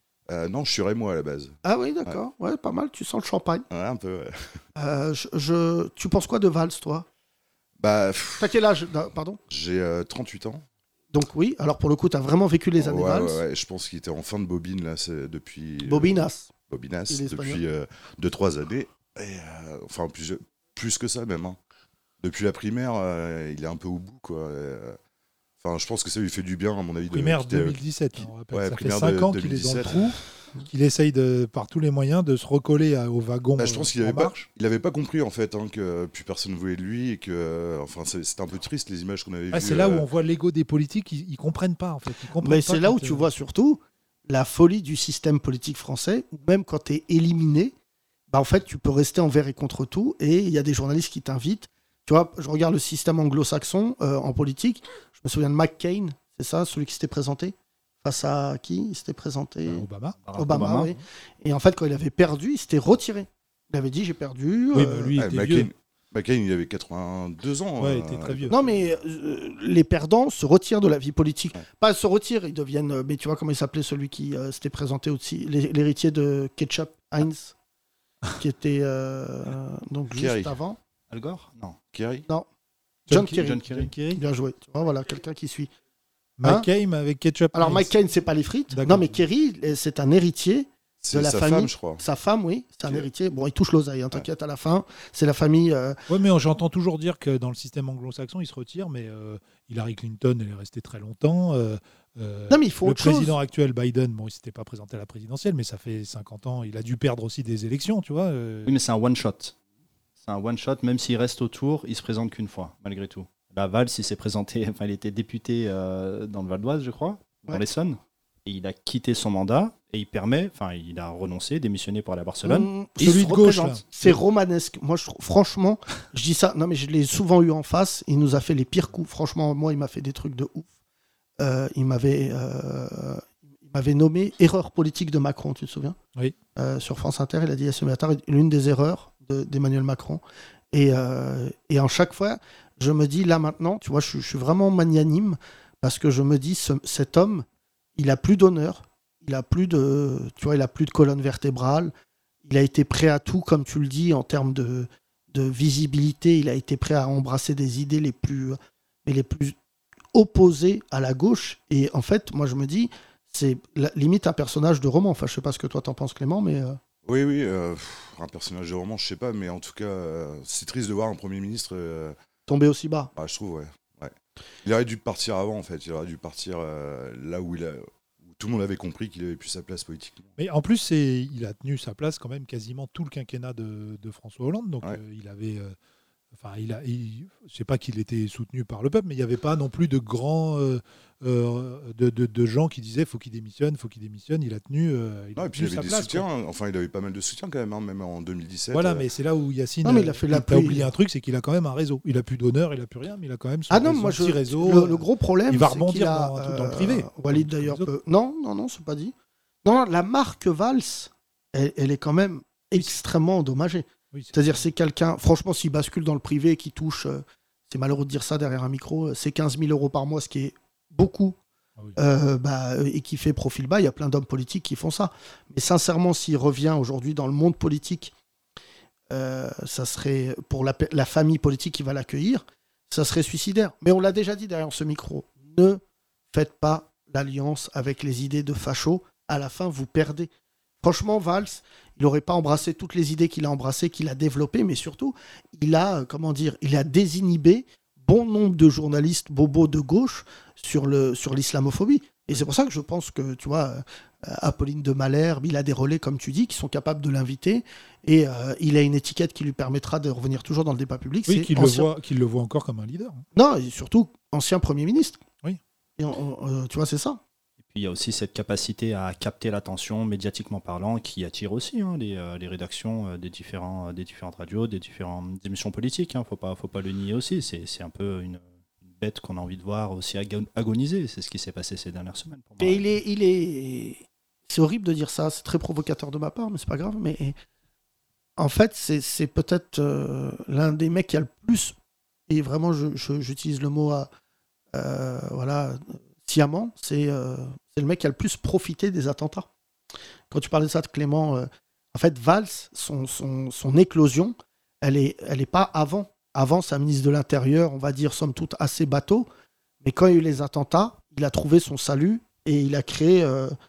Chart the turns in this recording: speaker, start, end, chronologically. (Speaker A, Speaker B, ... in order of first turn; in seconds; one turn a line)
Speaker A: 0.3-2.2
Speaker B: 1.6-3.7
Speaker A: 3.7-4.6
Speaker B: 4.8-7.1
Speaker A: 7.8-8.6
Speaker B: 8.4-9.4
Speaker A: 9.5-10.6
Speaker B: 11.1-13.4
Speaker A: 12.8-21.6
Speaker B: 15.8-16.5
Speaker B: 17.1-17.6
Speaker A: 22.2-25.0
Speaker A: 25.6-27.8
Speaker C: 27.1-34.5
Speaker A: 28.4-30.2
Speaker A: 33.6-40.1
Speaker C: 39.5-43.2
Speaker B: 42.4-47.7
Speaker B: 48.3-59.9
Speaker C: 59.7-60.2
Speaker D: 60.2-61.0
Speaker B: 60.4-65.2
Speaker C: 64.7-65.7
Speaker A: 65.2-68.8
Speaker C: 67.8-68.6
Speaker B: 68.5-77.5
Speaker B: 78.4-80.8
Speaker A: 80.1-80.6
Speaker D: 81.1-81.8
Speaker A: 81.9-82.3
Speaker C: 83.1-84.2
Speaker B: 83.1-85.7
Speaker D: 83.4-84.0
Speaker C: 86.4-87.9
Speaker B: 87.5-96.0
Speaker C: 88.7-89.2
Speaker A: 91.0-92.0
Speaker C: 96.1-108.7
Speaker B: 102.5-103.3
Speaker D: 108.7-109.5
Speaker D: 110.2-122.7
Speaker B: 122.5-130.7
Speaker C: 123.0-124.2
Speaker B: 131.4-136.0
Speaker B: 136.6-147.4
Speaker B: 148.0-151.9
Speaker B: 152.4-159.6
Speaker B: 160.1-166.8
Speaker A: 167.1-172.2
Speaker B: 172.5-173.1
Speaker A: 173.2-174.1
Speaker A: 174.6-180.3
Speaker C: 180.4-185.8
Speaker C: 186.3-196.3
Speaker A: 195.4-199.1
Speaker C: 198.7-207.9
Speaker B: 199.8-200.9
Speaker B: 203.7-209.1
Speaker B: 209.6-221.4
Speaker C: 214.1-214.4
Speaker B: 222.0-228.1
Speaker B: 229.1-235.8
Speaker B: 236.3-240.3
Speaker B: 240.8-261.9
Speaker C: 261.3-263.2
Speaker B: 263.4-265.2
Speaker B: 266.0-267.2
Speaker D: 267.7-282.9
Speaker B: 282.6-287.4
Speaker B: 288.4-291.8
Speaker B: 292.3-294.1
Speaker B: 294.7-299.5
Speaker B: 300.3-309.3
Speaker B: 309.8-313.5